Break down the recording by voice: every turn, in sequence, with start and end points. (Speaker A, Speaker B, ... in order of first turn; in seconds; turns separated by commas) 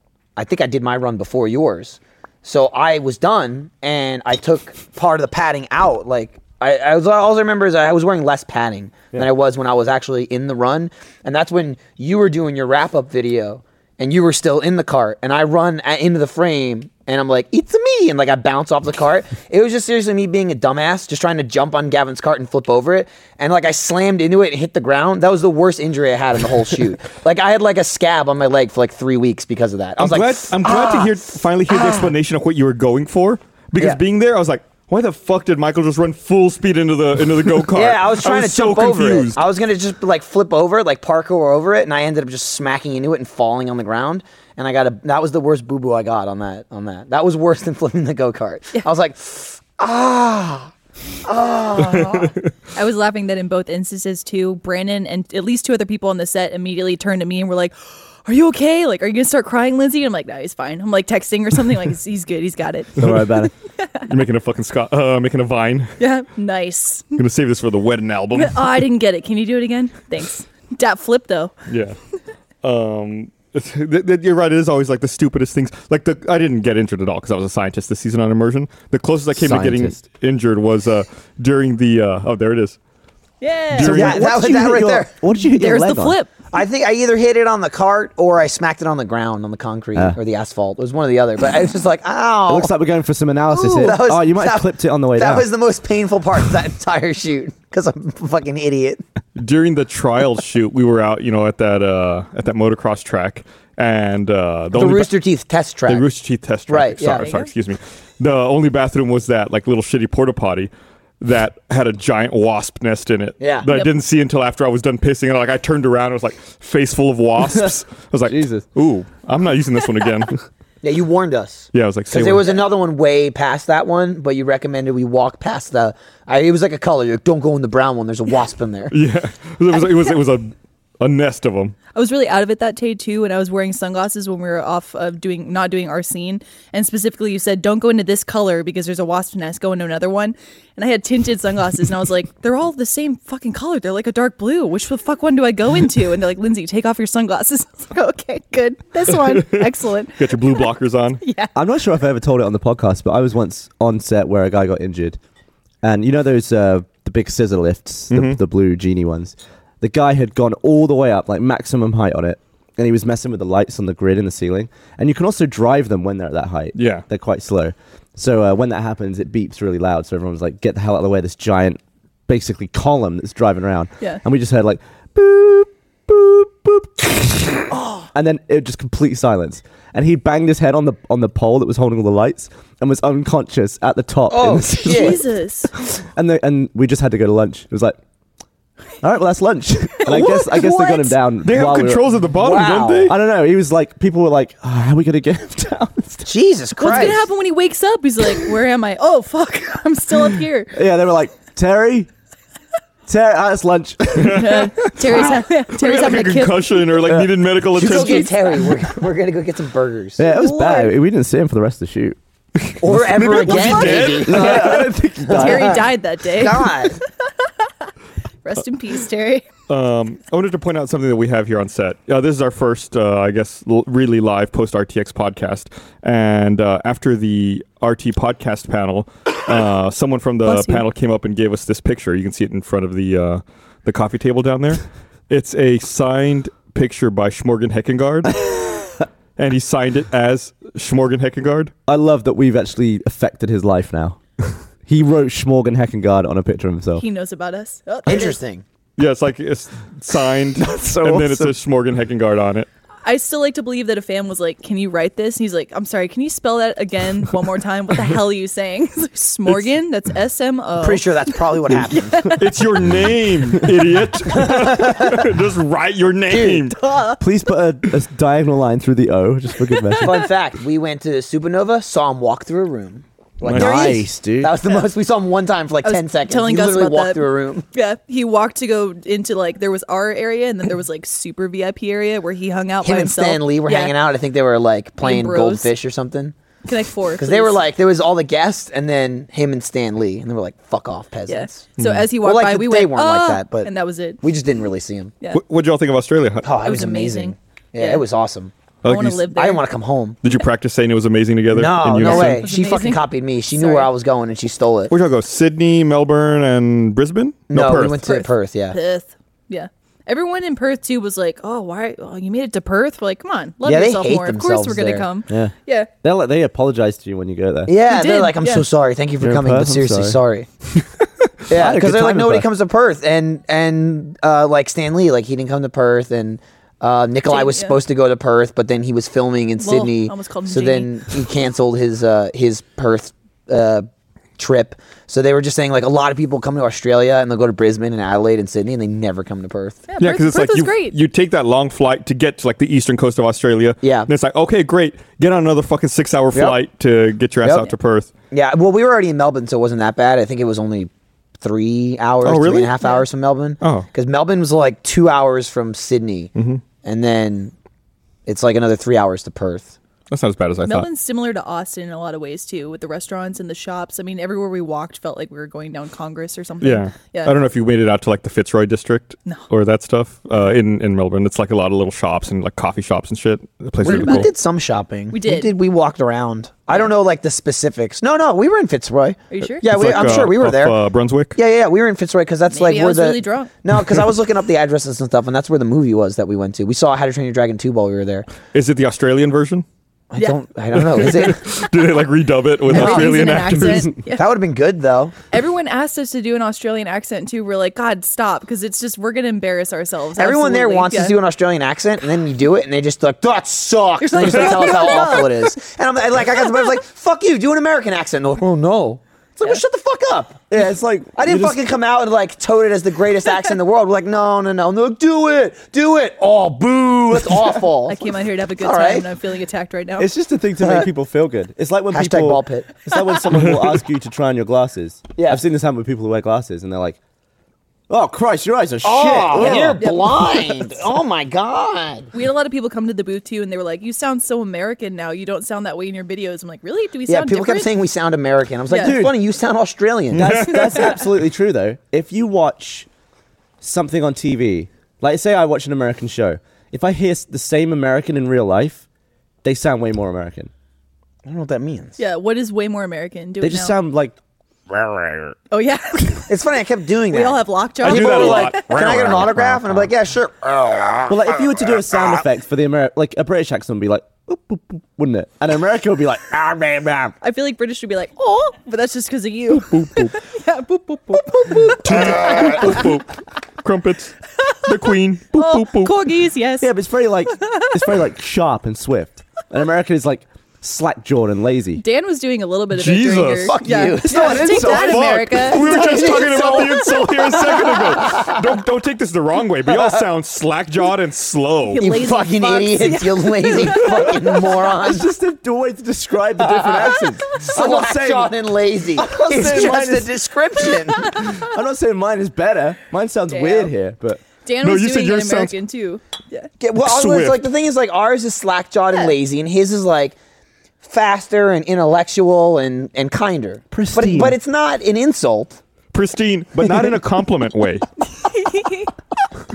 Speaker A: 0.4-32.1, Speaker B: 30.0-39.4, Speaker A: 37.7-50.7, Speaker A: 51.2-52.3, Speaker B: 51.9-52.3, Speaker C: 52.7-63.0, Speaker D: 63.0-63.5, Speaker B: 64.0-65.9, Speaker C: 66.0-67.2, Speaker B: 67.2-68.8, Speaker C: 68.3-71.5, Speaker B: 71.7-72.0, Speaker B: 72.6-82.8, Speaker D: 79.3-80.0, Speaker C: 83.4-84.1, Speaker B: 83.8-84.2, Speaker D: 83.8-86.2, Speaker A: 83.8-85.1, Speaker C: 85.4-86.3, Speaker A: 86.5-92.7, Speaker D: 92.5-95.5, Speaker A: 93.5-99.0, Speaker C: 93.7-93.9, Speaker B: 99.4-105.1, Speaker A: 104.7-106.0, Speaker B: 105.9-120.4, Speaker A: 106.7-107.3, Speaker C: 107.2-107.5, Speaker A: 113.4-113.7, Speaker C: 113.7-113.9, Speaker D: 118.3-118.7, Speaker A: 120.8-129.0, Speaker B: 121.7-122.6, Speaker B: 128.9-131.8, Speaker C: 131.9-150.7, Speaker B: 149.2-151.2, Speaker C: 151.2-151.5, Speaker D: 151.6-155.2, Speaker D: 155.8-185.2, Speaker B: 158.1-158.4, Speaker B: 166.8-167.0, Speaker A: 184.3-185.2, Speaker C: 184.8-185.7, Speaker D: 185.8-188.0, Speaker D: 189.0-192.1, Speaker C: 190.1-191.2, Speaker B: 190.1-190.6, Speaker B: 191.4-193.2, Speaker A: 192.4-193.1, Speaker D: 193.1-196.3, Speaker A: 196.2-197.2, Speaker C: 196.8-200.8, Speaker D: 196.9-197.1, Speaker D: 200.7-202.1, Speaker D: 203.1-204.7, Speaker B: 204.2-208.7, Speaker C: 204.3-206.8, Speaker A: 207.8-210.3, Speaker C: 207.9-208.5, Speaker D: 210.2-212.2, Speaker C: 210.2-210.9, Speaker B: 212.7-214.9, Speaker A: 212.8-215.8, Speaker D: 213.8-215.9, Speaker C: 215.3-217.9, Speaker A: 216.3-217.0, Speaker C: 218.4-219.4, Speaker B: 219.7-238.4, Speaker C: 230.4-230.8, Speaker B: 239.4-241.7, Speaker D: 241.9-244.2, Speaker D: 244.9-247.0, Speaker C: 247.0-248.4, Speaker A: 248.1-248.6, Speaker B: 249.0-252.7, Speaker D: 250.6-251.6, Speaker C: 253.0-262.4, Speaker A: 260.8-262.4, Speaker B: 262.4-266.8, Speaker A: 264.3-265.3, Speaker A: 266.3-266.6, Speaker C: 266.7-267.2, Speaker D: 267.2-270.3, Speaker C: 269.6-270.3, Speaker A: 270.0-277.6, Speaker B: 273.4-274.0, Speaker D: 273.5-274.6, Speaker C: 275.8-283.9, Speaker A: 282.8-286.4, Speaker C: 285.0-285.7, Speaker C: 286.6-287.6, Speaker A: 287.2-293.7, Speaker C: 291.3-294.2, Speaker B: 291.8-292.1, Speaker A: 294.2-295.1, Speaker B: 295.3-296.5, Speaker A: 296.4-298.5, Speaker C: 296.6-298.1, Speaker B: 298.8-299.3, Speaker C: 298.9-299.6, Speaker A: 299.3-300.2, Speaker B: 300.2-302.5, Speaker A: 301.5-304.9, Speaker C: 302.0-303.9, Speaker B: 304.9-308.0, Speaker A: 307.5-308.8, Speaker C: 308.0-315.9, Speaker A: 313.6-315.1, Speaker D: 315.3-317.8, Speaker A: 317.6-320.5, Speaker C: 317.9-318.7, Speaker D: 319.2-320.2, Speaker A: 321.5-339.9, Speaker D: 321.5-322.5, Speaker C: 327.3-327.8, Speaker C: 329.6-331.1, Speaker C: 339.9-341.0, Speaker B: 340.0-348.1, Speaker A: 343.8-344.1, Speaker A: 347.4-347.7, Speaker A: 348.3-356.3, Speaker B: 352.2-352.7, Speaker B: 353.6-353.9, Speaker B: 356.4-356.6, Speaker A: 356.8-357.5, Speaker A: 358.3-359.8, Speaker B: 360.1-360.9, Speaker C: 360.6-367.3, Speaker B: 366.6-374.3, Speaker A: 373.8-380.8, Speaker C: 373.8-374.3, Speaker C: 375.1-375.5, Speaker C: 379.3-380.0, Speaker B: 379.6-381.4, Speaker A: 381.4-388.3, Speaker C: 382.5-383.5, Speaker B: 388.5-389.6, Speaker A: 390.1-391.5, Speaker B: 390.8-393.9, Speaker A: 392.7-393.3, Speaker C: 392.7-394.2, Speaker A: 394.1-395.1, Speaker C: 395.3-401.1, Speaker A: 400.1-418.0, Speaker C: 404.0-405.5, Speaker D: 410.5-411.6, Speaker C: 417.9-420.1, Speaker A: 418.6-419.1, Speaker D: 420.0-427.0, Speaker A: 421.9-422.9, Speaker A: 425.2-425.4, Speaker D: 427.9-429.9, Speaker A: 428.8-432.1, Speaker C: 429.8-430.8, Speaker C: 432.1-437.7, Speaker A: 437.1-440.6, Speaker C: 438.7-439.0, Speaker D: 438.8-439.2, Speaker D: 440.1-442.9, Speaker B: 440.1-441.0, Speaker C: 440.5-441.0, Speaker D: 443.6-448.8, Speaker D: 449.4-450.5, Speaker A: 451.2-452.0, Speaker C: 452.0-453.8, Speaker D: 453.4-454.1, Speaker A: 454.7-455.3, Speaker C: 455.5-456.3, Speaker A: 456.3-461.8, Speaker C: 457.1-458.7, Speaker B: 457.8-459.8, Speaker D: 458.8-459.8, Speaker D: 461.1-466.4, Speaker A: 466.3-467.1, Speaker C: 467.2-472.9, Speaker B: 469.6-470.1, Speaker B: 471.8-475.9, Speaker A: 471.9-472.6, Speaker C: 475.3-476.7, Speaker D: 476.6-481.8, Speaker C: 477.4-477.7, Speaker C: 481.8-486.6, Speaker B: 482.7-483.6, Speaker A: 483.5-488.4, Speaker D: 483.7-485.3, Speaker B: 484.6-491.8, Speaker A: 489.7-490.0, Speaker C: 491.7-494.6, Speaker A: 491.8-495.1, Speaker D: 494.6-498.3, Speaker A: 496.4-501.3, Speaker D: 498.9-500.1, Speaker D: 501.1-504.2, Speaker C: 501.1-501.4, Speaker C: 503.3-503.7, Speaker C: 504.4-506.5, Speaker B: 504.6-505.5, Speaker A: 506.6-510.1, Speaker B: 506.8-507.4, Speaker A: 510.8-515.6, Speaker D: 513.7-514.4, Speaker B: 515.9-517.9, Speaker C: 518.1-518.9